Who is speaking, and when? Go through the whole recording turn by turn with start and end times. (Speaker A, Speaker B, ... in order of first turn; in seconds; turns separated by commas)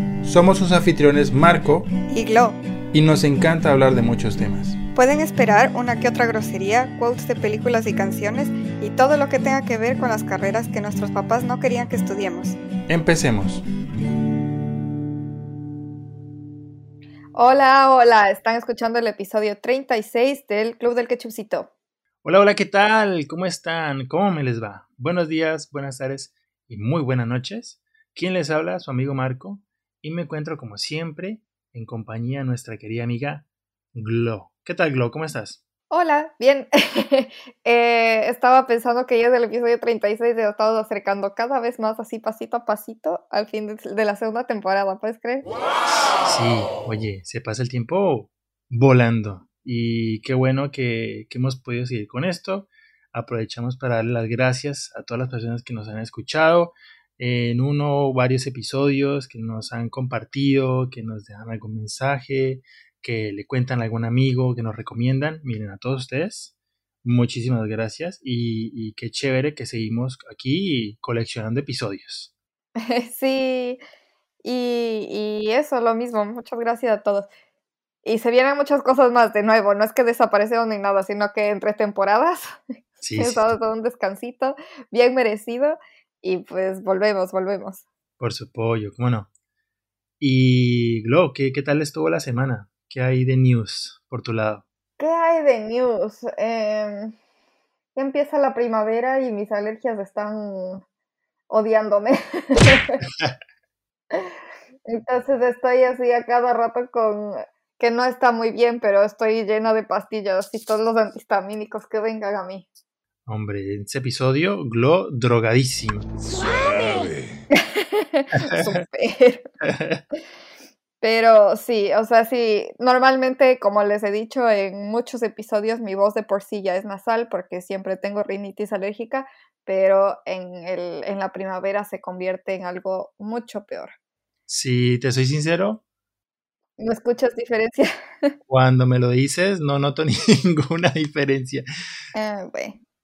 Speaker A: 0.2-1.9, Speaker B: 2.1-2.6, Speaker A: 2.9-4.8, Speaker B: 5.0-12.6, Speaker A: 12.9-13.6, Speaker B: 17.4-21.7, Speaker A: 22.2-35.6, Speaker B: 35.9-45.5, Speaker A: 46.2-66.5, Speaker A: 67.0-72.3, Speaker B: 72.8-73.8, Speaker B: 74.4-77.3, Speaker B: 78.0-82.6, Speaker A: 83.0-83.6, Speaker B: 83.2-87.8, Speaker A: 88.2-89.3, Speaker A: 90.2-94.7, Speaker B: 95.0-97.1, Speaker B: 98.0-100.8, Speaker B: 101.5-103.0, Speaker B: 104.9-112.7, Speaker A: 113.3-116.1, Speaker A: 116.8-117.0, Speaker B: 117.5-119.5, Speaker A: 119.6-120.0, Speaker B: 121.0-133.9, Speaker A: 134.5-135.8, Speaker B: 136.8-138.3, Speaker A: 138.5-141.7, Speaker B: 142.2-142.8